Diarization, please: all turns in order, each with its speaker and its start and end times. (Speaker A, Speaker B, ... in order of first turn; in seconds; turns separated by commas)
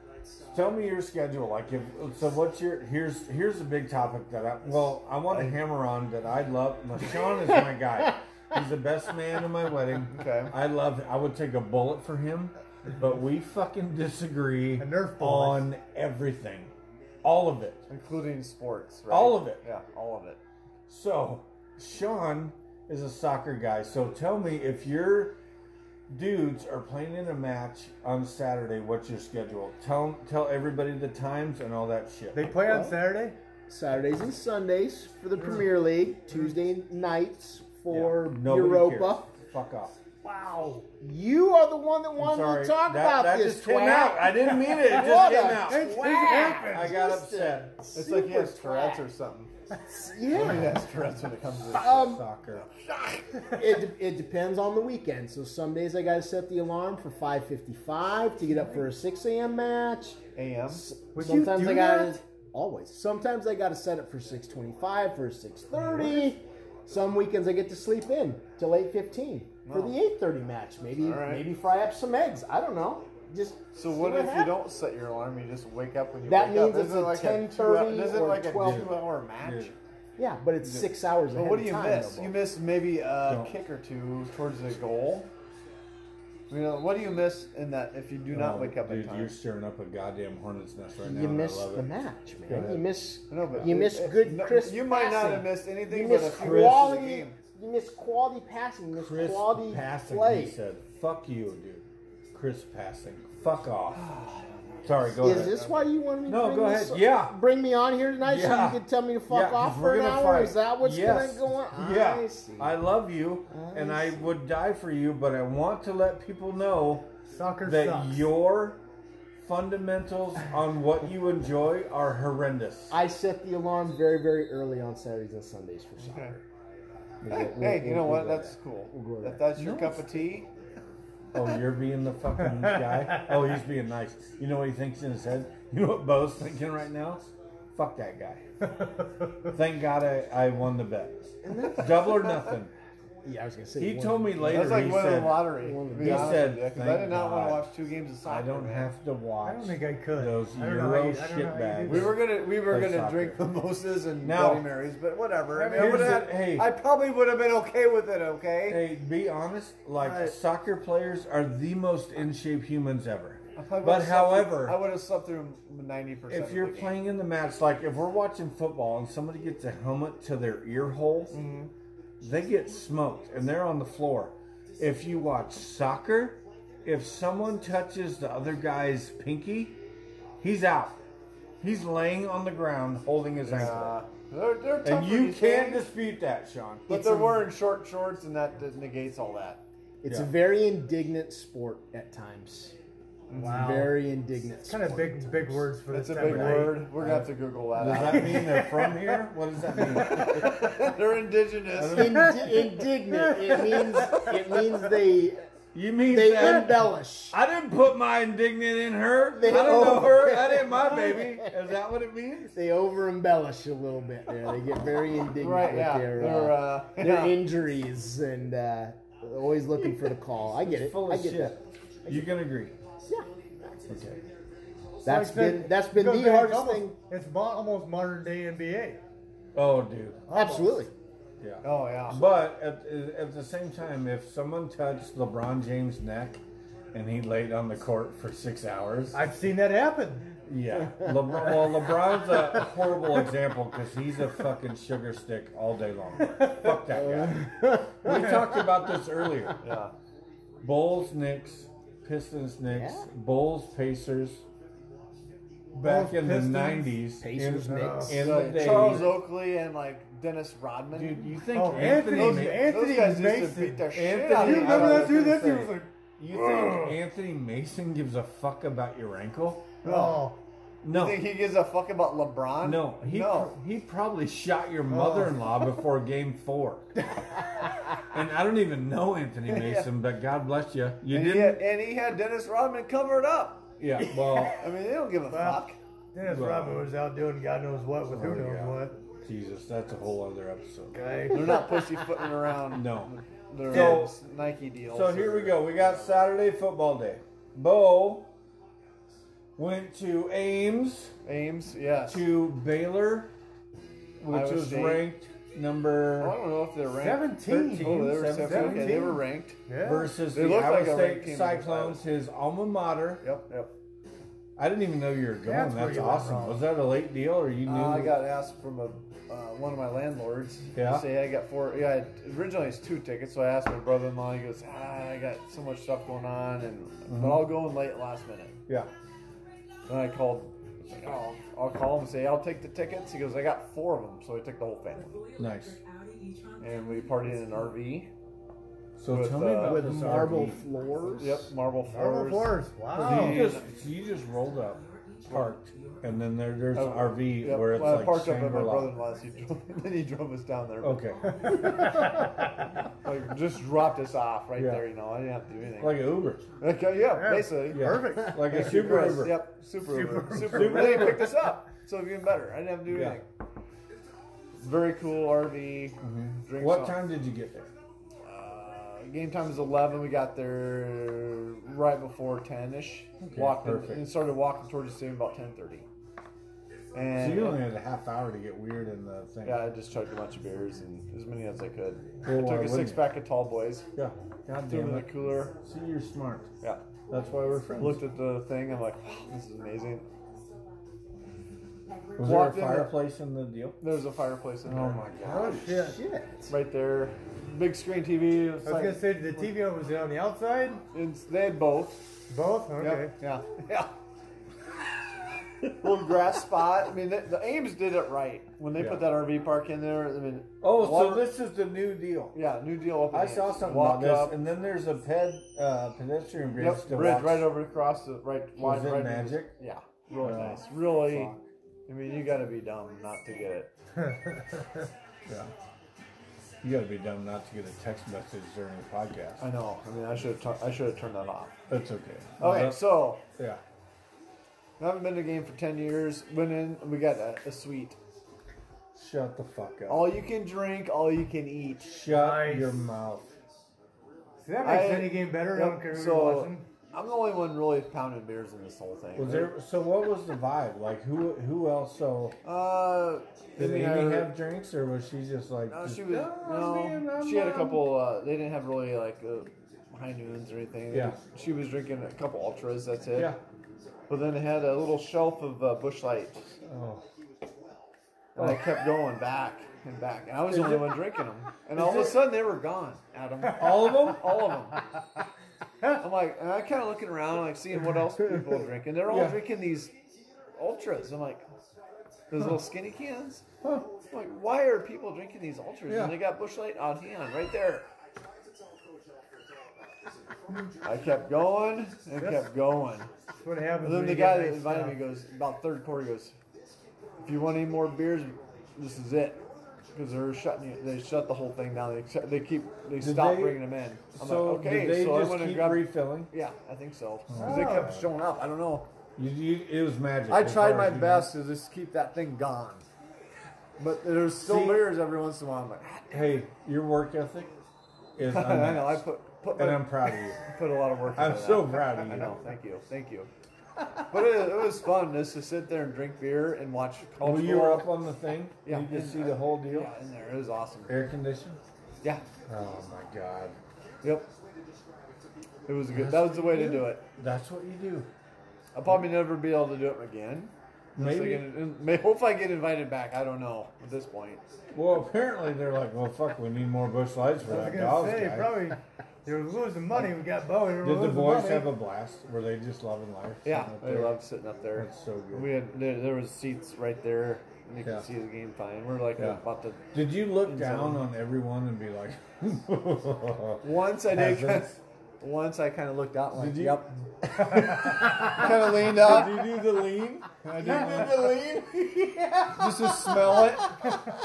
Speaker A: 0.5-16.7, Speaker B: 5.3-5.6, Speaker B: 10.1-10.5, Speaker C: 14.8-15.6, Speaker A: 17.2-17.9, Speaker B: 17.9-20.4, Speaker A: 19.1-19.6, Speaker A: 20.9-25.4, Speaker A: 26.1-32.6, Speaker C: 32.3-33.4, Speaker D: 32.7-32.9, Speaker D: 33.7-39.2, Speaker C: 35.4-36.5, Speaker A: 37.9-40.0, Speaker C: 40.2-40.8, Speaker D: 41.0-49.0, Speaker A: 42.2-47.8, Speaker C: 44.8-47.0, Speaker B: 47.9-49.5, Speaker D: 49.9-50.8, Speaker B: 50.3-53.2, Speaker A: 51.6-52.6, Speaker D: 51.7-52.2, Speaker D: 53.5-74.5, Speaker B: 60.3-60.8, Speaker C: 61.1-62.2, Speaker B: 69.6-69.9, Speaker B: 71.0-71.5, Speaker B: 73.7-79.7, Speaker D: 76.2-79.0, Speaker A: 78.6-79.7, Speaker D: 80.2-82.4, Speaker B: 80.7-85.3, Speaker A: 83.3-83.5, Speaker B: 86.5-89.3, Speaker A: 88.3-91.9, Speaker D: 91.0-100.6, Speaker A: 92.5-92.9, Speaker B: 93.3-97.4, Speaker A: 96.2-96.9, Speaker A: 98.9-104.1, Speaker B: 103.9-105.9, Speaker A: 104.8-105.5, Speaker D: 105.2-112.7, Speaker A: 106.2-107.3, Speaker A: 108.2-117.1, Speaker D: 113.5-114.3, Speaker C: 117.3-118.3, Speaker A: 117.6-118.8, Speaker A: 119.4-123.0, Speaker D: 122.9-126.4, Speaker B: 126.0-126.3, Speaker D: 127.2-129.5, Speaker B: 127.3-130.5, Speaker A: 129.5-130.1, Speaker A: 131.3-138.4, Speaker A: 139.5-142.7, Speaker D: 141.4-142.5, Speaker D: 143.2-146.5, Speaker A: 143.8-147.7, Speaker B: 144.5-148.9, Speaker A: 148.2-153.4, Speaker C: 149.4-152.2, Speaker B: 151.8-158.9, Speaker A: 154.2-154.7, Speaker C: 155.5-156.3, Speaker A: 155.7-156.7, Speaker A: 158.7-164.8, Speaker B: 160.0-160.3, Speaker B: 163.6-167.0, Speaker A: 166.3-171.4, Speaker B: 171.3-171.7, Speaker A: 172.2-179.8, Speaker A: 180.4-181.0, Speaker A: 181.6-184.0, Speaker B: 183.4-185.8, Speaker A: 184.8-186.9, Speaker B: 186.9-189.6, Speaker D: 186.9-187.4, Speaker D: 190.0-192.7, Speaker A: 190.0-190.3, Speaker B: 193.3-193.8, Speaker C: 193.3-194.0, Speaker A: 193.3-193.6, Speaker D: 193.4-195.6, Speaker C: 194.7-196.9, Speaker B: 195.9-198.6, Speaker A: 196.2-200.7, Speaker C: 198.0-199.2, Speaker C: 199.8-200.3, Speaker B: 200.1-202.3, Speaker A: 201.7-202.4, Speaker D: 201.9-205.4, Speaker C: 202.2-204.7, Speaker A: 205.7-212.5, Speaker D: 206.1-207.4, Speaker D: 209.3-211.5, Speaker D: 212.5-222.2, Speaker B: 215.4-217.4, Speaker A: 219.8-220.1, Speaker A: 220.6-222.8, Speaker A: 223.9-224.2, Speaker D: 225.0-226.9, Speaker C: 225.0-229.0, Speaker A: 229.5-230.2, Speaker C: 230.3-230.8, Speaker D: 230.3-230.9, Speaker A: 231.4-236.4, Speaker B: 231.6-232.2, Speaker A: 236.9-239.2, Speaker C: 239.1-240.3, Speaker A: 240.4-249.6, Speaker D: 246.9-248.7, Speaker B: 249.6-249.9, Speaker A: 250.6-254.4, Speaker D: 252.7-253.1, Speaker A: 255.7-259.2, Speaker C: 255.8-257.0, Speaker D: 257.2-258.3, Speaker C: 257.7-259.0, Speaker B: 258.1-265.3, Speaker A: 260.9-262.8, Speaker C: 261.5-267.0, Speaker A: 263.9-269.7, Speaker B: 269.8-270.2, Speaker C: 269.8-270.4, Speaker A: 270.8-271.2, Speaker B: 270.9-273.5, Speaker A: 272.6-276.9, Speaker C: 274.9-275.5, Speaker A: 277.9-281.6, Speaker B: 279.5-279.9, Speaker B: 281.1-283.6, Speaker A: 283.8-284.6, Speaker C: 284.2-284.5, Speaker B: 284.6-285.8, Speaker C: 285.3-289.0, Speaker A: 286.2-286.9, Speaker A: 288.1-291.0, Speaker C: 290.9-291.9, Speaker B: 291.3-296.2, Speaker A: 292.7-294.2, Speaker C: 293.7-294.0, Speaker A: 294.9-298.3, Speaker A: 299.6-301.1, Speaker B: 301.2-302.3, Speaker A: 302.1-303.3, Speaker A: 304.2-306.4, Speaker B: 304.3-305.1, Speaker B: 306.2-309.6, Speaker C: 307.0-310.1, Speaker A: 307.4-309.1, Speaker A: 309.8-313.2, Speaker B: 310.3-312.0, Speaker B: 313.2-313.7, Speaker A: 314.6-318.2, Speaker C: 315.4-316.7, Speaker B: 317.6-328.6, Speaker A: 320.7-321.1, Speaker A: 327.1-327.5, Speaker B: 329.9-335.2, Speaker A: 335.4-335.8, Speaker B: 336.6-338.1, Speaker A: 339.0-340.6, Speaker B: 339.1-339.9, Speaker D: 339.6-341.5, Speaker B: 341.2-343.6, Speaker C: 341.9-343.5, Speaker A: 342.9-348.9, Speaker B: 345.3-345.5, Speaker B: 346.7-351.0, Speaker A: 350.8-351.9, Speaker C: 351.7-352.2, Speaker B: 353.0-356.0, Speaker A: 354.6-354.8, Speaker A: 355.8-356.4, Speaker B: 356.6-363.3, Speaker C: 357.1-359.1, Speaker A: 357.7-359.4, Speaker C: 359.9-361.1, Speaker A: 360.4-361.4, Speaker A: 362.9-363.2, Speaker B: 364.6-367.0, Speaker A: 366.0-367.7, Speaker B: 368.2-375.9, Speaker A: 373.2-374.1, Speaker B: 376.9-377.7, Speaker A: 377.1-379.6, Speaker B: 379.4-383.9, Speaker A: 382.2-383.1, Speaker A: 383.9-386.5, Speaker B: 384.7-385.5, Speaker A: 387.1-388.0, Speaker B: 387.8-390.1, Speaker A: 392.2-393.8, Speaker B: 392.2-393.0, Speaker B: 393.8-395.1, Speaker A: 394.6-395.8, Speaker C: 395.2-396.0, Speaker D: 395.6-396.5, Speaker B: 396.5-399.1, Speaker C: 398.6-400.8, Speaker B: 400.9-402.1, Speaker C: 402.3-403.1, Speaker B: 402.8-403.9, Speaker B: 405.7-411.3, Speaker A: 408.8-409.1, Speaker A: 410.6-412.4, Speaker B: 412.3-414.4, Speaker A: 413.1-417.5, Speaker B: 416.6-421.3, Speaker A: 418.6-419.5, Speaker A: 420.2-421.4, Speaker B: 421.9-423.7, Speaker A: 425.3-425.5, Speaker A: 426.6-429.4, Speaker B: 429.4-431.5, Speaker A: 431.7-433.6, Speaker B: 432.4-433.2, Speaker B: 434.8-438.0, Speaker A: 438.9-440.1, Speaker B: 439.9-441.9, Speaker A: 441.8-443.3, Speaker C: 442.1-442.7, Speaker C: 444.4-446.6, Speaker B: 444.6-449.5, Speaker A: 449.1-452.4, Speaker B: 452.4-454.4, Speaker A: 453.6-457.9, Speaker B: 455.7-463.3, Speaker A: 460.9-461.1, Speaker B: 464.1-466.5, Speaker A: 466.6-467.0, Speaker B: 468.3-474.8, Speaker A: 468.4-468.6, Speaker A: 470.5-471.0, Speaker A: 471.7-472.2, Speaker A: 473.5-474.2, Speaker B: 475.9-479.9, Speaker A: 479.1-479.4, Speaker B: 480.6-481.4, Speaker B: 482.3-483.4, Speaker B: 484.1-487.9, Speaker A: 485.9-486.1, Speaker B: 490.8-493.1, Speaker C: 492.2-492.4, Speaker C: 493.4-495.0, Speaker B: 493.8-496.3, Speaker B: 497.2-508.9, Speaker A: 503.0-503.6, Speaker A: 504.1-506.3, Speaker A: 507.3-508.1, Speaker C: 507.4-508.0, Speaker A: 509.1-511.3, Speaker B: 510.3-512.9, Speaker B: 513.8-516.4, Speaker A: 514.4-514.9, Speaker A: 516.1-517.5, Speaker A: 518.1-520.4, Speaker B: 518.2-523.3, Speaker A: 521.1-522.4, Speaker B: 524.0-527.9, Speaker A: 527.2-529.9, Speaker B: 528.6-531.0, Speaker A: 530.9-531.6, Speaker A: 532.5-533.6, Speaker B: 534.0-534.3, Speaker B: 535.6-537.0, Speaker A: 535.9-538.1, Speaker B: 538.7-544.4, Speaker A: 540.9-541.5, Speaker A: 544.7-548.6, Speaker C: 547.5-551.7, Speaker A: 550.8-554.2, Speaker B: 553.4-561.0, Speaker A: 554.7-555.5, Speaker A: 559.9-564.8, Speaker B: 563.6-567.0, Speaker A: 566.4-573.6, Speaker B: 568.0-569.5, Speaker B: 570.4-571.5, Speaker B: 572.5-574.0